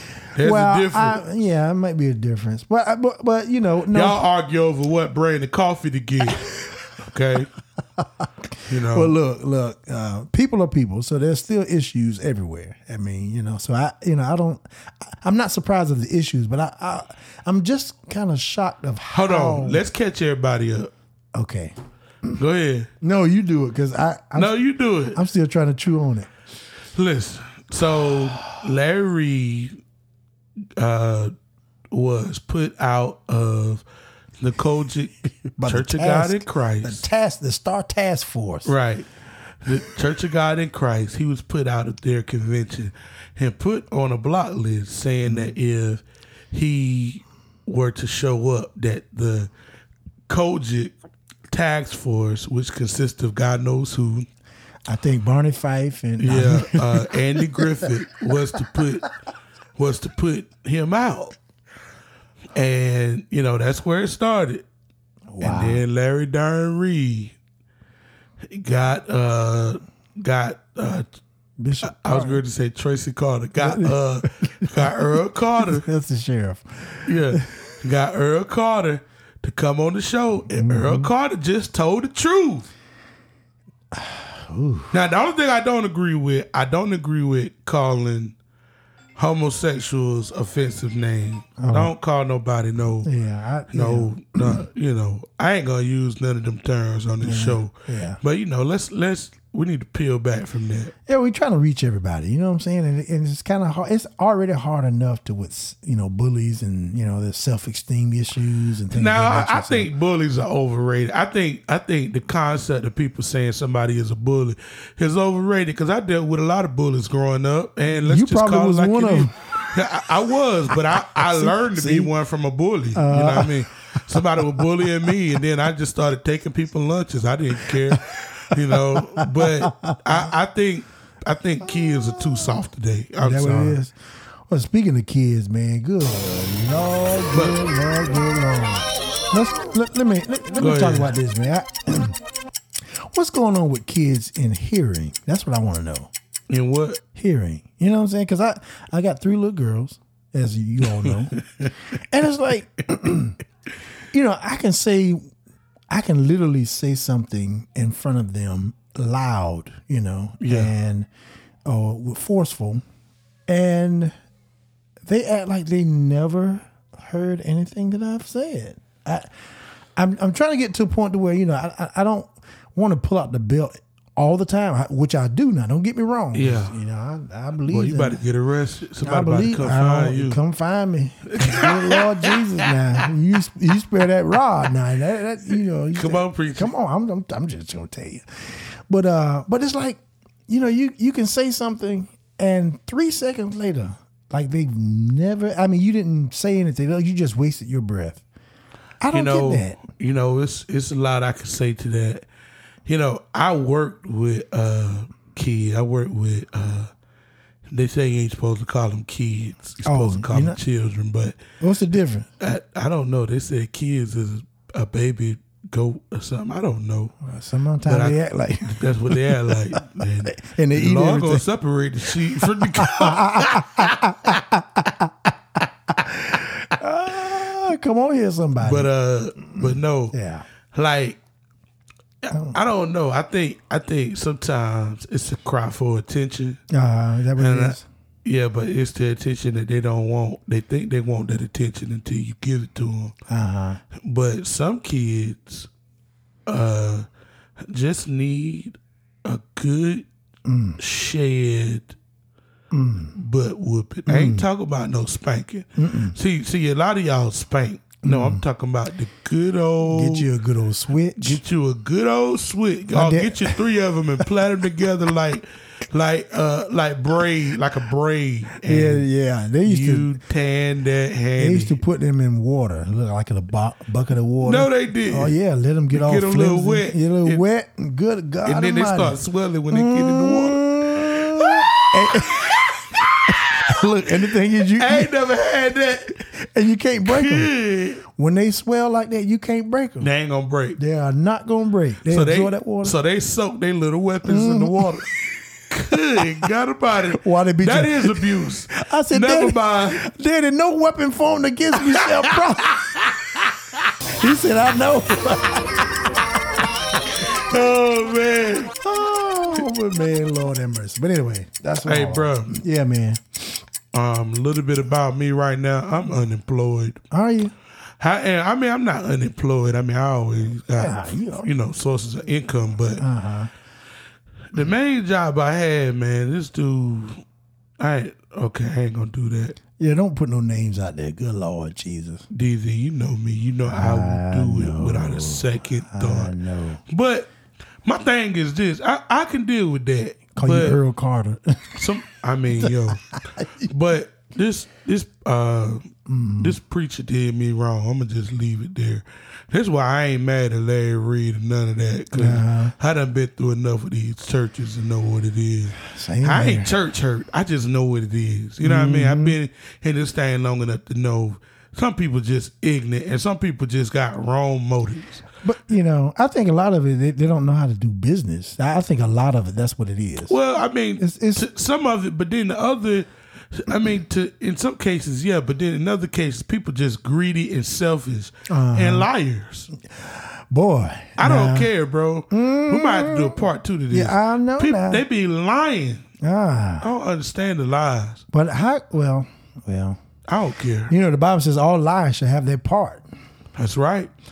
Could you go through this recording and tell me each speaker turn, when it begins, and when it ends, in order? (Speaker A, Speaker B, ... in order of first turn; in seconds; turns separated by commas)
Speaker A: 0.3-1.2, Speaker B: 0.4-4.2, Speaker A: 3.9-7.5, Speaker B: 8.7-19.8, Speaker A: 8.7-9.1, Speaker A: 19.1-20.9, Speaker B: 21.3-21.7, Speaker A: 22.4-22.9, Speaker B: 23.0-24.6, Speaker A: 24.4-25.2, Speaker B: 25.1-26.3, Speaker A: 26.9-29.8, Speaker A: 30.8-31.3, Speaker A: 31.9-33.8, Speaker A: 34.4-37.0, Speaker B: 35.6-38.7, Speaker A: 38.6-39.1, Speaker A: 39.6-49.5, Speaker B: 45.2-45.5, Speaker A: 50.3-50.9, Speaker A: 51.5-54.3, Speaker B: 54.9-57.9, Speaker A: 56.2-59.0, Speaker A: 59.8-61.4, Speaker A: 62.5-64.6, Speaker B: 65.3-65.8, Speaker A: 65.4-67.3, Speaker A: 68.5-71.1, Speaker B: 71.6-72.4, Speaker A: 71.8-75.8, Speaker B: 73.6-75.0, Speaker B: 75.6-77.5, Speaker A: 77.0-82.7, Speaker B: 80.5-81.1, Speaker B: 83.9-84.9, Speaker A: 84.9-88.3, Speaker A: 89.2-93.1, Speaker B: 91.6-91.9, Speaker B: 93.0-94.6, Speaker A: 93.7-100.9, Speaker B: 97.2-98.2, Speaker B: 101.0-109.9, Speaker A: 108.9-133.8, Speaker B: 118.0-119.3, Speaker B: 121.1-122.1, Speaker B: 122.9-124.9, Speaker B: 127.7-128.0, Speaker B: 128.7-130.0, Speaker B: 133.2-133.9, Speaker B: 134.5-142.2, Speaker A: 137.3-137.6, Speaker A: 140.5-141.1, Speaker B: 143.1-146.1, Speaker A: 146.5-147.0, Speaker B: 147.1-151.4, Speaker A: 150.9-151.7, Speaker B: 152.0-153.4, Speaker B: 154.1-155.2, Speaker B: 155.9-161.1, Speaker A: 160.4-160.7, Speaker B: 161.7-162.8, Speaker B: 163.5-164.1, Speaker B: 165.1-169.3, Speaker B: 169.9-178.2, Speaker A: 176.3-176.7, Speaker A: 177.7-180.4, Speaker B: 179.0-198.2, Speaker A: 181.3-182.7, Speaker A: 185.9-186.7, Speaker B: 199.0-199.8, Speaker A: 199.1-202.2, Speaker A: 202.9-206.9, Speaker A: 207.7-211.3, Speaker B: 209.8-210.6, Speaker B: 211.6-212.3, Speaker A: 212.4-217.1, Speaker B: 217.2-221.4, Speaker A: 217.8-218.2, Speaker A: 218.7-223.9, Speaker B: 222.3-225.1, Speaker B: 225.9-228.9, Speaker A: 228.6-230.1, Speaker B: 229.4-230.4, Speaker A: 230.7-231.2, Speaker A: 232.3-236.6, Speaker B: 232.3-232.6, Speaker B: 236.7-237.8, Speaker A: 237.4-243.1, Speaker B: 243.3-243.8, Speaker A: 244.0-245.7, Speaker A: 246.5-247.1, Speaker A: 247.7-250.1, Speaker B: 250.4-250.8, Speaker A: 250.8-251.9, Speaker B: 252.7-253.2, Speaker A: 253.1-260.3, Speaker B: 254.1-254.5, Speaker B: 255.8-256.1, Speaker B: 258.0-258.4, Speaker B: 259.8-261.4, Speaker A: 261.2-269.1, Speaker B: 262.9-263.6, Speaker B: 268.6-270.1, Speaker A: 269.6-271.8, Speaker B: 271.4-279.2, Speaker A: 274.4-275.4, Speaker A: 275.9-277.4, Speaker A: 278.4-283.6, Speaker B: 279.7-282.6, Speaker B: 283.3-285.1, Speaker A: 284.8-286.2, Speaker B: 286.3-287.5, Speaker A: 287.1-288.0, Speaker B: 288.1-290.1, Speaker A: 290.0-290.8, Speaker B: 290.8-292.9, Speaker A: 292.1-295.2, Speaker B: 294.2-295.0, Speaker A: 295.7-300.0, Speaker B: 297.1-302.7, Speaker A: 301.8-303.4, Speaker B: 304.2-306.2, Speaker A: 307.2-308.7, Speaker B: 308.8-313.4, Speaker A: 311.9-312.6, Speaker A: 313.9-317.0, Speaker B: 317.1-317.5, Speaker A: 318.0-323.0, Speaker B: 320.7-321.5, Speaker B: 322.9-323.5, Speaker A: 324.5-327.2, Speaker A: 327.8-329.6, Speaker B: 329.8-332.2, Speaker A: 332.3-336.3, Speaker B: 333.7-336.8, Speaker A: 336.9-337.3, Speaker A: 337.8-340.8, Speaker B: 340.4-341.8, Speaker A: 341.8-343.0, Speaker B: 342.6-343.7, Speaker A: 343.7-345.9, Speaker B: 346.1-346.6, Speaker A: 346.4-365.2, Speaker B: 352.1-352.7, Speaker B: 355.8-356.7, Speaker B: 358.6-359.4, Speaker B: 365.4-370.4, Speaker A: 370.3-379.7, Speaker B: 371.0-371.5, Speaker B: 378.5-379.1, Speaker B: 379.9-381.7, Speaker A: 381.2-386.0, Speaker B: 382.3-385.0, Speaker B: 386.2-386.9, Speaker A: 386.8-388.2, Speaker B: 388.3-390.0, Speaker A: 390.3-390.9, Speaker B: 390.9-393.0, Speaker A: 393.5-394.1